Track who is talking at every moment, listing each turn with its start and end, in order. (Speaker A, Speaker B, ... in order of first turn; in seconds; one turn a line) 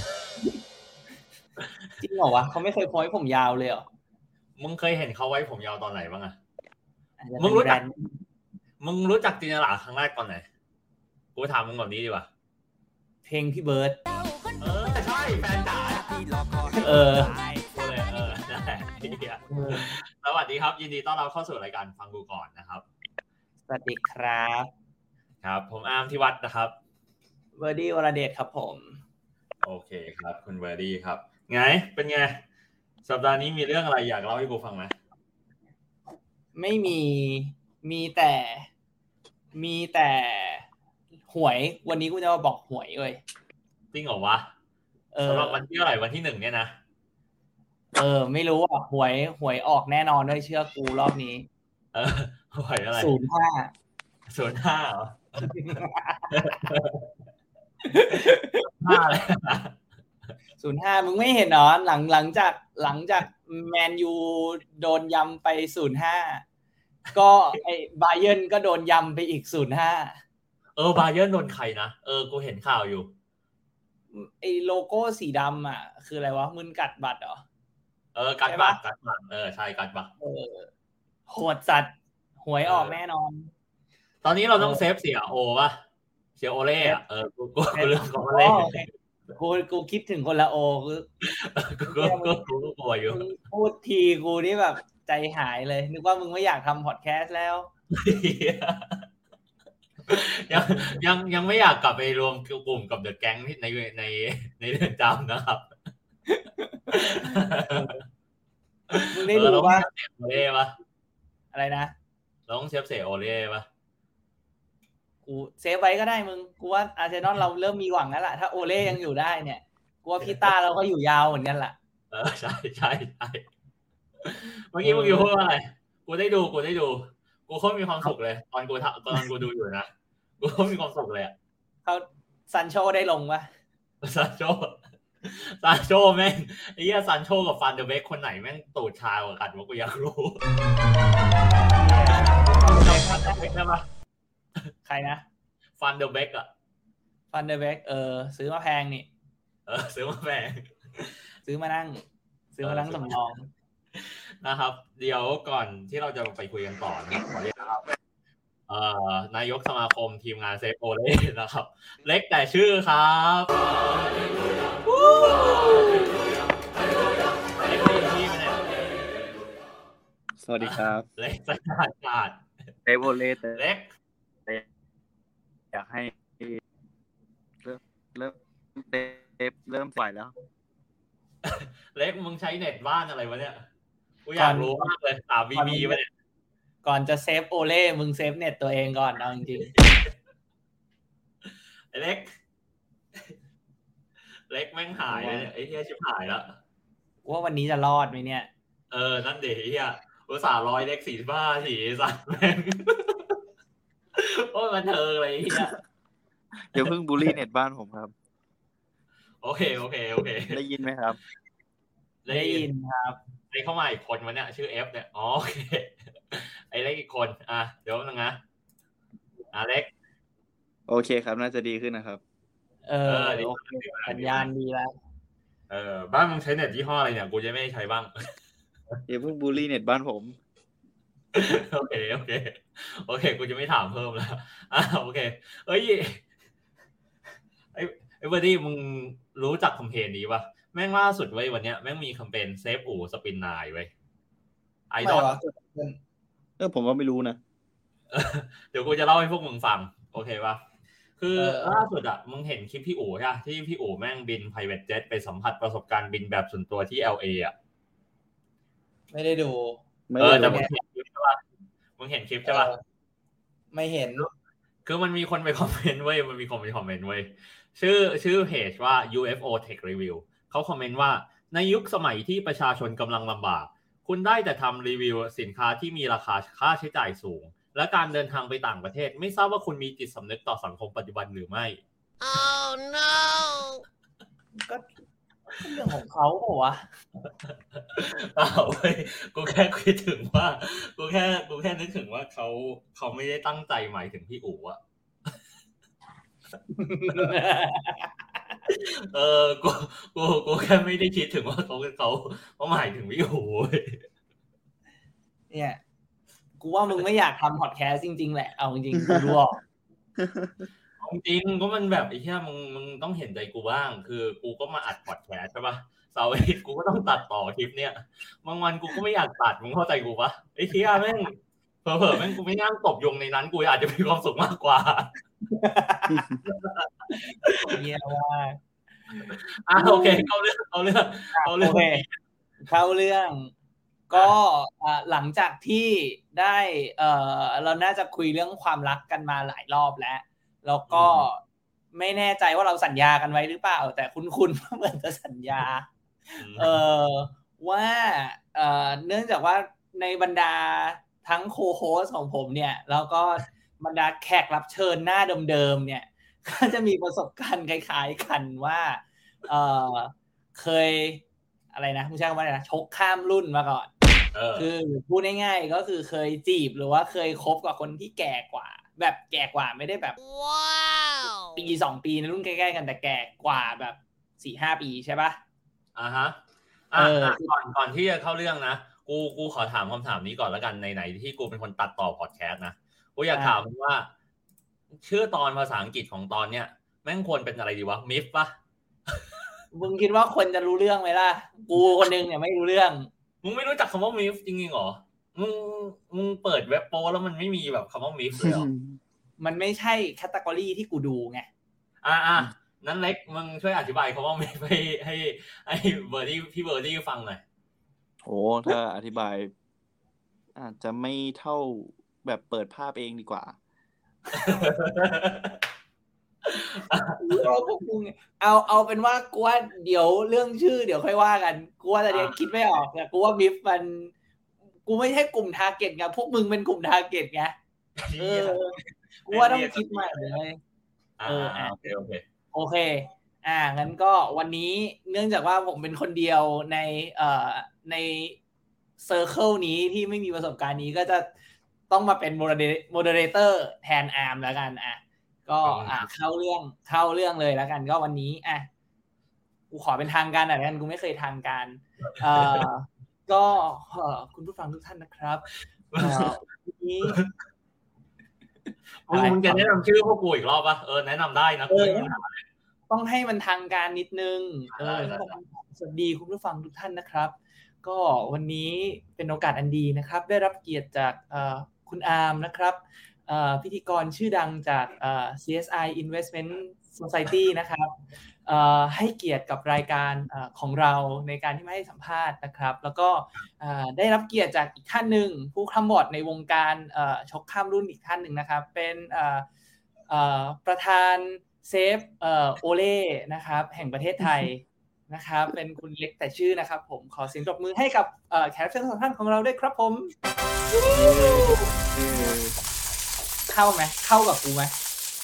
Speaker A: 2.0-3.9
Speaker B: 4.6-6.4
Speaker A: 7.2-8.2
Speaker B: 7.4-7.8
Speaker B: 8.8-10.4
Speaker B: 11.3-12.3
Speaker A: 13.2-14.0
Speaker C: 14.2-15.0
Speaker B: 14.6-16.0
Speaker C: 15.9-16.4
Speaker A: 16.8-17.3
Speaker B: 17.6-22.8
Speaker A: 19.5-20.0
Speaker A: 23.7-24.7
Speaker B: 25.4-26.7
Speaker A: 27.6-29.0
Speaker B: 29.6-32.4
Speaker B: 33.0-34.9
Speaker A: 36.5-38.7
Speaker A: 39.5-40.6
Speaker A: 41.3-43.2
Speaker B: 43.9-44.5
Speaker A: 45.1-45.6
Speaker B: 45.2-46.7
Speaker A: 48.0-51.5
Speaker B: 51.9-53.1
Speaker A: 53.0-53.7
Speaker B: 54.3-55.5
Speaker A: 55.4-56.7
Speaker B: 56.3-57.1
Speaker A: 57.8-59.0
Speaker B: 58.3-59.7
Speaker A: 60.6-66.4
Speaker A: 67.1-70.2
Speaker B: 70.8-73.1
Speaker A: 74.1-77.4
Speaker B: 78.1-80.1
Speaker A: 78.5-78.8
Speaker A: 80.2-80.7
Speaker A: 81.3-83.5
Speaker B: 82.6-83.0
Speaker B: 84.2-85.8
Speaker A: 84.6-84.8
Speaker B: 86.4-88.7
Speaker A: 87.7-91.2
Speaker B: 91.3-93.2
Speaker A: 91.8-92.4
Speaker A: 93.1-97.7
Speaker B: 97.9-99.0
Speaker B: 100.1-105.7
Speaker A: 100.5-101.0
Speaker A: 106.3-108.0
Speaker B: 106.9-107.9
Speaker B: 108.9-110.7
Speaker A: 109.1-109.9
Speaker A: 111.5-111.9
Speaker B: 112.5-113.7
Speaker A: 115.2-121.7
Speaker B: 122.1-123.4
Speaker B: 124.2-129.9
Speaker A: 124.8-125.3
Speaker B: 130.4-131.3
Speaker A: 131.8-133.5
Speaker B: 134.0-140.4
Speaker A: 141.7-143.5
Speaker B: 142.4-143.9
Speaker A: 144.8-145.2
Speaker B: 145.8-146.5
Speaker A: 147.3-149.1
Speaker B: 149.7-151.1
Speaker A: 151.4-152.0
Speaker A: 152.5-153.5
Speaker B: 152.6-153.3
Speaker B: 153.9-157.8
Speaker B: 158.7-164.3
Speaker B: 164.8-166.3
Speaker B: 167.6-168.7
Speaker D: 170.4-171.1
Speaker B: 170.6-172.4
Speaker D: 172.8-173.6
Speaker B: 173.5-173.8
Speaker D: 175.7-176.6
Speaker D: 177.6-180.3
Speaker B: 181.4-183.6
Speaker B: 184.2-186.1
Speaker A: 184.4-184.9
Speaker A: 185.5-186.0
Speaker A: 186.8-189.7
Speaker B: 189.7-190.0
Speaker B: 191.4-192.3
Speaker B: 194.5-196.6
Speaker D: 195.1-195.5
Speaker A: 197.2-198.5
Speaker B: 198.9-203.4
Speaker B: 204.1-205.7
Speaker D: 206.7-208.1
Speaker B: 209.4-210.6
Speaker D: 210.4-211.2
Speaker B: 212.2-212.7
Speaker A: 212.3-213.2
Speaker B: 213.5-218.4
Speaker B: 219.5-219.9
Speaker D: 220.9-222.2
Speaker A: 222.8-224.9
Speaker B: 223.1-224.5
Speaker B: 225.7-228.1
Speaker D: 229.1-230.4
Speaker B: 231.3-236.2
Speaker B: 237.7-243.9
Speaker B: 244.9-245.4
Speaker A: 245.0-246.0
Speaker D: 246.6-247.4
Speaker B: 248.1-250.6
Speaker B: 251.2-257.5
Speaker A: 251.3-251.8
Speaker A: 259.1-259.8
Speaker D: 260.1-260.7
Speaker B: 260.2-261.4
Speaker B: 262.0-262.7
Speaker A: 262.4-262.8
Speaker A: 263.7-264.3
Speaker B: 264.8-281.8
Speaker C: 282.2-283.8
Speaker A: 285.6-286.9
Speaker B: 287.9-294.8
Speaker A: 296.7-298.1
Speaker B: 298.7-304.0
Speaker A: 305.5-305.8
Speaker A: 306.6-309.6
Speaker D: 310.2-310.6
Speaker B: 311.0-325.1
Speaker A: 325.5-326.3
Speaker B: 326.4-327.8
Speaker A: 327.6-328.6
Speaker B: 329.2-332.1
Speaker A: 329.8-330.3
Speaker A: 331.3-332.0
Speaker A: 332.6-333.5
Speaker A: 334.1-341.4
Speaker B: 340.9-341.3
Speaker A: 341.9-361.2
Speaker B: 346.4-346.8
Speaker A: 361.7-363.9
Speaker B: 364.3-364.7
Speaker A: 364.6-370.2
Speaker C: 370.2-371.6
Speaker A: 371.5-375.4
Speaker B: 375.9-376.4
Speaker B: 376.9-384.1
Speaker A: 376.9-377.5
Speaker B: 385.0-388.5
Speaker A: 389.7-393.1
Speaker B: 393.4-398.7
Speaker D: 398.4-399.0
Speaker A: 399.4-401.5
Speaker B: 402.0-407.4
Speaker D: 408.2-409.5
Speaker D: 410.5-413.6
Speaker A: 414.3-414.7
Speaker B: 414.3-415.6
Speaker B: 416.5-417.5
Speaker A: 417.2-424.1
Speaker B: 422.1-422.4
Speaker A: 424.8-427.5
Speaker B: 428.0-430.4
Speaker A: 428.2-428.8
Speaker A: 429.3-430.6
Speaker B: 431.2-432.2
Speaker A: 431.3-431.9
Speaker A: 432.5-438.4
Speaker A: 439.0-441.3
Speaker A: 441.9-448.7
Speaker B: 445.6-446.1
Speaker A: 449.7-455.4
Speaker B: 452.3-452.6
Speaker B: 455.9-456.3
Speaker A: 456.0-457.2
Speaker B: 459.1-462.4
Speaker A: 459.1-459.7
Speaker A: 461.7-462.1
Speaker A: 462.9-477.9
Speaker B: 464.8-465.3
Speaker A: 478.4-489.4
Speaker A: 490.1-500.1
Speaker D: 500.9-502.6
Speaker A: 503.5-504.7